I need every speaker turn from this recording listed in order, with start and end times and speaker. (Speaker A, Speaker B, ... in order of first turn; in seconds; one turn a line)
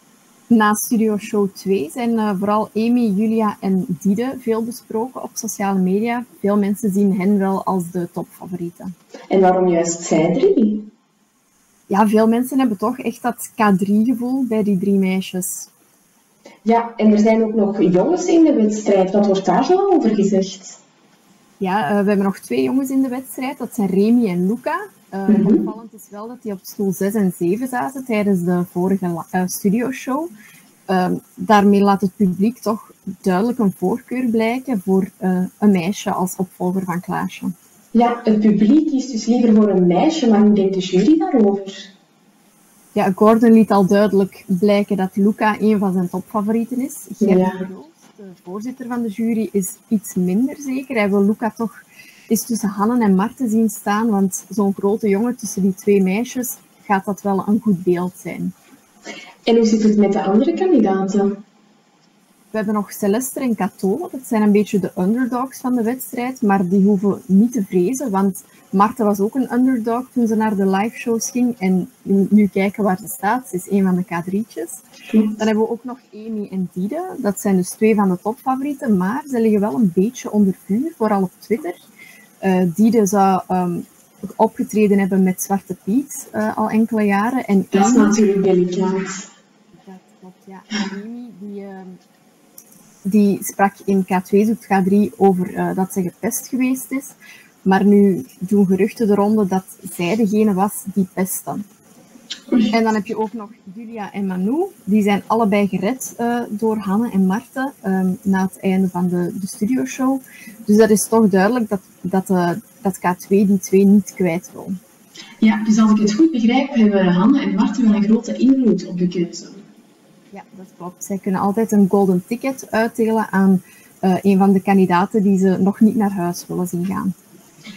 Speaker A: 0.5-8.9
Speaker B: 9.3-10.9
Speaker A: 11.9-15.7
Speaker B: 16.6-20.8
Speaker A: 21.6-30.3
Speaker B: 25.3-25.6
Speaker A: 30.9-37.5
Speaker B: 37.9-41.9
Speaker A: 43.0-58.5
Speaker B: 47.2-47.6
Speaker B: 59.5-61.4
Speaker A: 62.5-74.8
Speaker B: 75.1-75.5
Speaker A: 75.4-81.8
Speaker A: 82.4-88.2
Speaker B: 87.7-89.3
Speaker A: 89.8-92.0
Speaker A: 93.0-101.6
Speaker B: 102.5-102.8
Speaker A: 102.7-114.8
Speaker B: 115.4-119.7
Speaker A: 120.3-127.1